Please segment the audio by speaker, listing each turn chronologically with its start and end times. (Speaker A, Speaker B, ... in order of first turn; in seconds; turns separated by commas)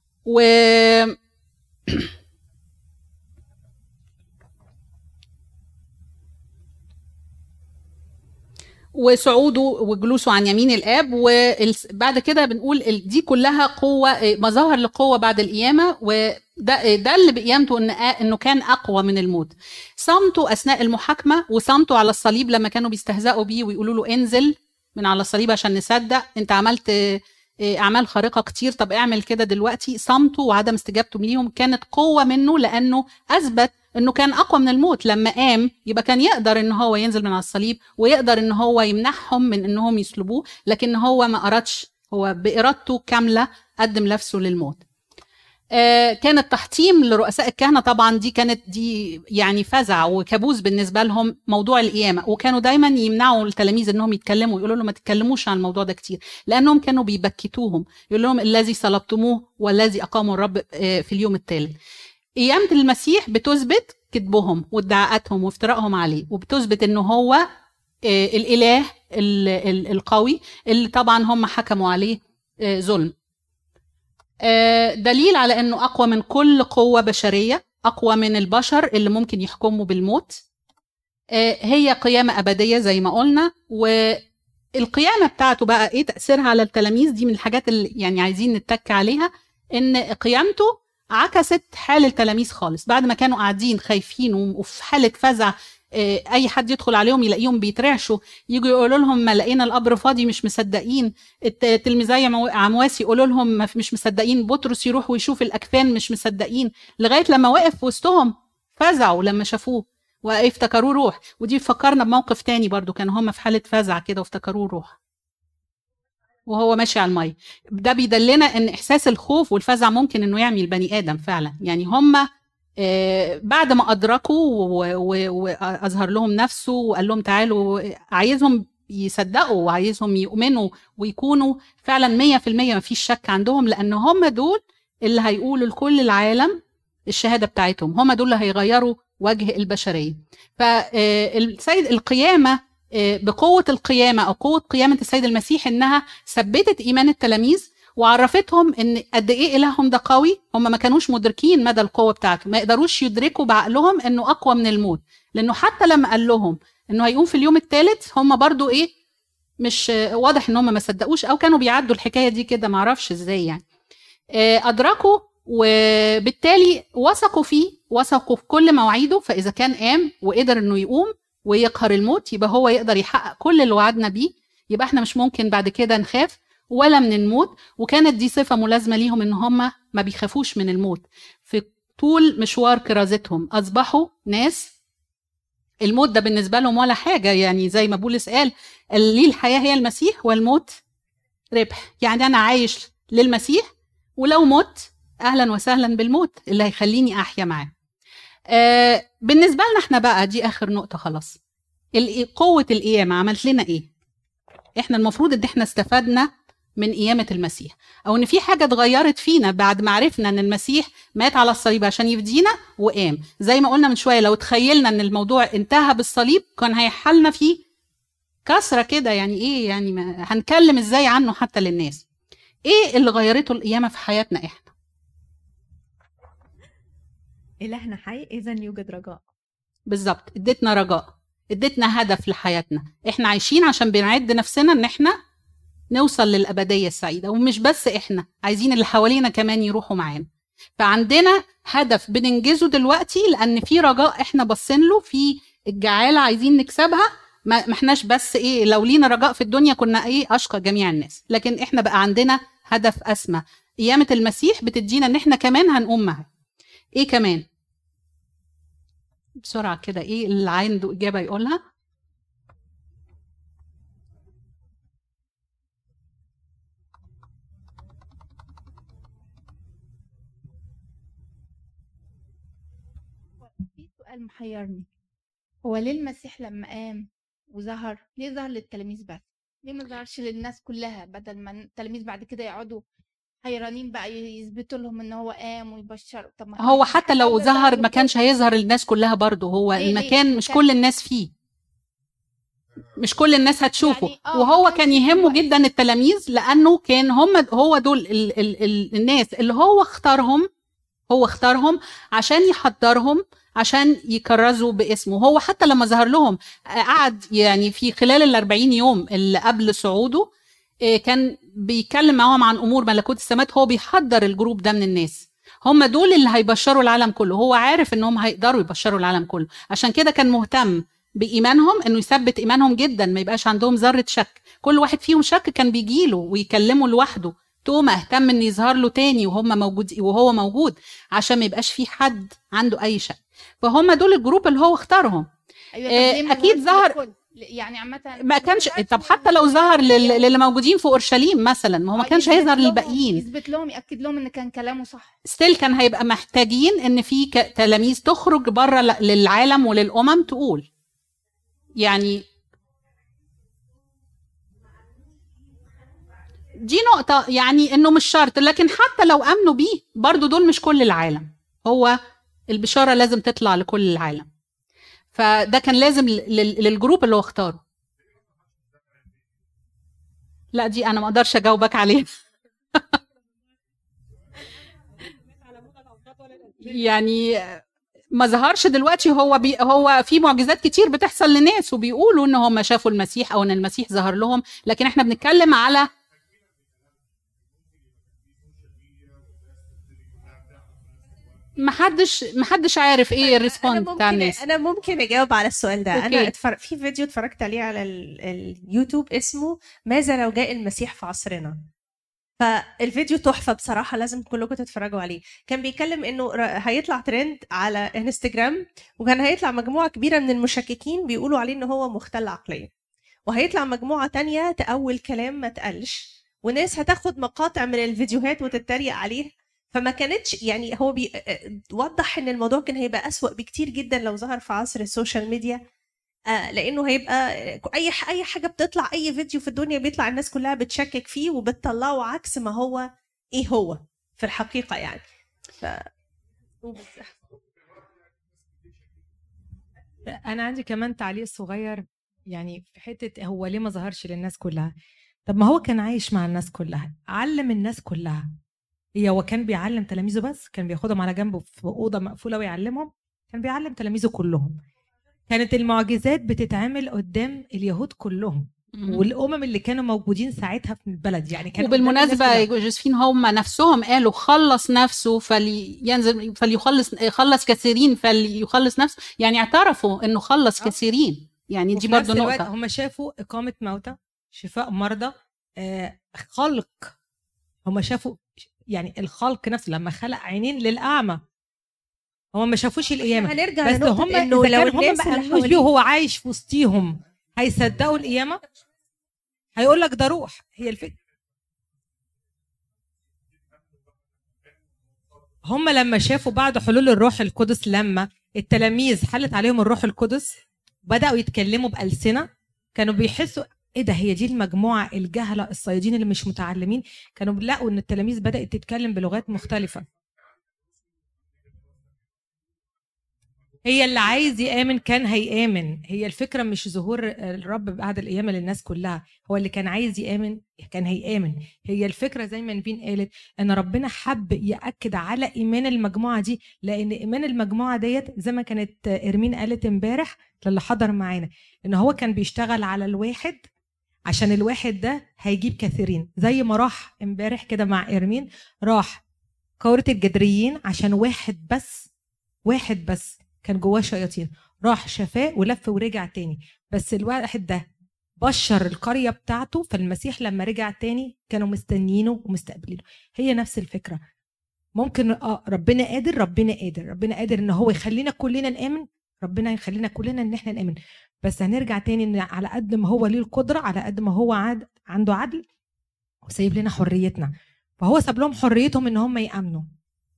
Speaker A: 0.3-1.2, Speaker A: 8.9-44.8, Speaker A: 45.7-61.8, Speaker A: 62.4-67.5, Speaker A: 68.0-73.1, Speaker A: 74.4-80.4, Speaker A: 81.3-84.2, Speaker A: 84.8-115.0, Speaker A: 116.5-122.3, Speaker A: 122.8-158.9, Speaker A: 159.6-163.6, Speaker A: 164.3-184.7, Speaker A: 185.8-190.8, Speaker A: 191.5-193.7, Speaker A: 194.2-197.7, Speaker A: 198.5-201.4, Speaker A: 202.0-203.9, Speaker A: 204.8-217.6, Speaker A: 218.5-222.0, Speaker A: 222.7-224.7, Speaker B: 227.6-229.2, Speaker A: 229.9-235.2, Speaker A: 235.9-240.3, Speaker A: 240.8-256.3, Speaker A: 257.0-257.4, Speaker A: 259.4-261.6, Speaker C: 273.4-274.9, Speaker C: 275.6-282.8, Speaker C: 283.4-288.1, Speaker A: 286.6-291.3, Speaker C: 289.8-290.6, Speaker A: 293.0-300.5, Speaker C: 293.8-295.4, Speaker A: 301.1-310.3, Speaker A: 310.8-335.3, Speaker C: 335.7-340.3, Speaker A: 335.9-336.9, Speaker A: 338.2-343.2, Speaker C: 341.9-345.1, Speaker A: 345.2-350.7, Speaker A: 351.8-352.2, Speaker A: 356.6-362.0, Speaker A: 362.5-364.3, Speaker A: 365.1-367.6, Speaker A: 370.5-372.1, Speaker B: 375.5-376.6, Speaker A: 376.6-377.6, Speaker A: 378.1-385.9, Speaker A: 391.6-394.4, Speaker D: 393.2-401.6, Speaker A: 395.9-396.3, Speaker D: 402.4-412.7, Speaker D: 413.3-425.6, Speaker D: 426.3-435.1, Speaker D: 435.6-435.9, Speaker D: 436.6-437.2, Speaker E: 440.1-444.7, Speaker E: 445.3-448.3, Speaker E: 449.0-454.6, Speaker E: 455.3-462.5, Speaker A: 458.8-459.0, Speaker A: 461.6-472.5, Speaker E: 471.7-476.9, Speaker E: 477.7-481.2, Speaker E: 482.3-488.4, Speaker D: 483.1-485.6, Speaker E: 489.6-490.9, Speaker E: 495.4-509.9, Speaker E: 513.6-533.4, Speaker E: 534.1-539.0, Speaker E: 539.6-541.9, Speaker E: 542.5-547.6, Speaker E: 548.2-554.0, Speaker E: 554.8-565.4, Speaker E: 566.2-569.7